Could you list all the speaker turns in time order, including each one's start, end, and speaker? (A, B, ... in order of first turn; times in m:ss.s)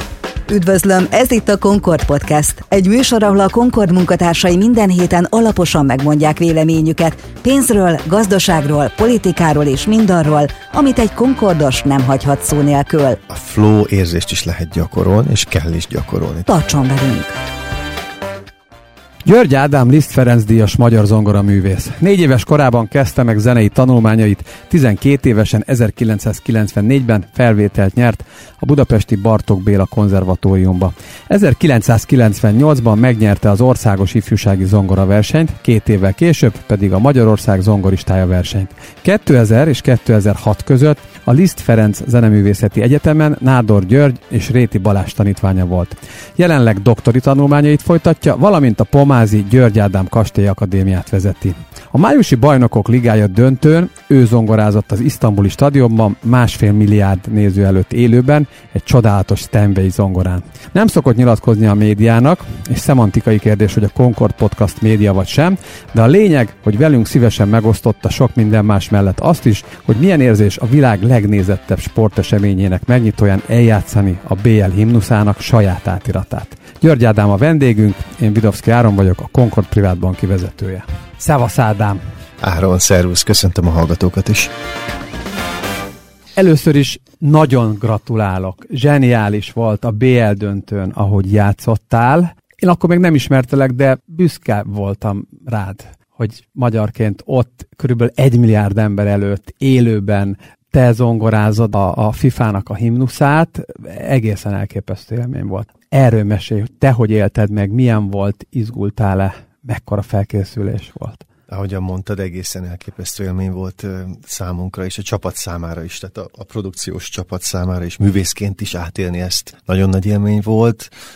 0:00.5-0:13.2 A
0:13.3-0:16.4 B
0:16.5-0:17.3 A
0:19.2-1:22.0 C
1:22.4-1:24.5 B
1:26.4-1:51.2 C
1:51.5-2:00.9 B